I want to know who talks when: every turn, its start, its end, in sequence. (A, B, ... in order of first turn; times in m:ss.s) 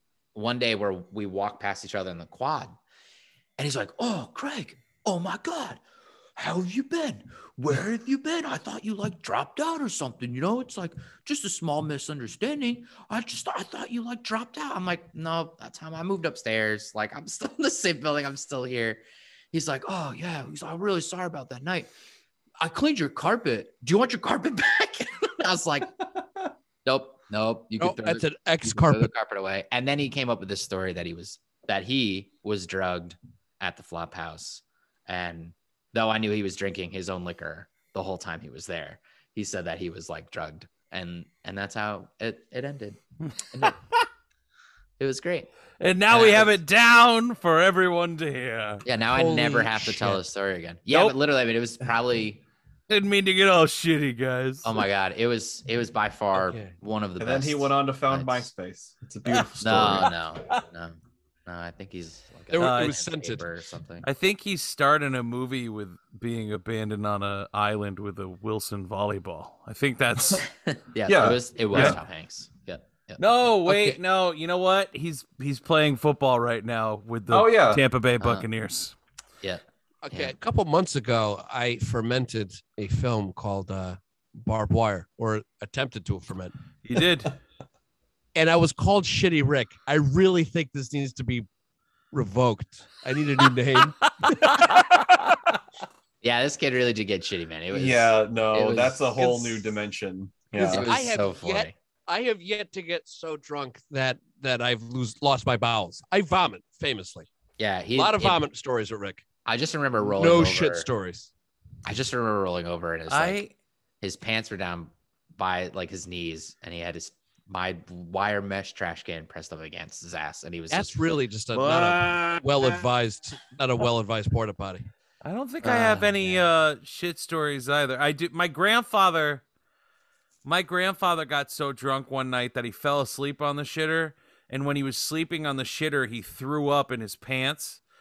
0:00.3-0:02.8 A
0:03.6-0:05.8 A
0:06.4-0:19.0 A
0:19.5-0:21.9 A
0:22.6-0:25.9 A
0:26.8-0:43.8 A
0:27.8-0:29.1 B
0:45.0-0:45.5 A
0:45.8-0:48.8 C
0:46.1-0:46.6 A
0:48.8-0:52.4 A
0:49.1-0:50.2 B
0:52.9-0:54.7 C
0:54.6-0:58.5 A
0:56.3-0:56.7 B
0:57.2-1:00.1 D
0:59.6-1:04.1 A
1:02.5-1:03.4 B
1:02.6-1:03.0 C
1:04.0-1:10.4 C
1:10.7-1:14.0 A
1:11.1-1:12.0 D
1:13.2-1:18.9 C
1:17.3-1:17.8 D
1:18.2-1:18.5 A
1:19.4-1:20.3 A
1:20.0-1:26.5 B
1:26.8-1:27.4 C
1:28.3-1:31.5 B
1:32.1-1:35.3 B
1:36.2-1:39.1 A
1:37.7-1:40.9 D
1:39.2-1:39.7 B
1:40.5-1:47.3 B
1:40.6-1:41.7 A
1:47.6-1:48.4 A
1:47.9-1:49.2 B
1:49.4-1:50.9 A
1:50.0-1:51.3 B
1:51.8-1:53.4 A
1:53.1-1:53.5 C
1:54.0-2:01.0 A
2:00.7-2:04.8 B
2:01.5-2:02.7 C
2:05.2-2:09.4 C
2:05.6-2:06.4 A
2:10.4-2:17.8 C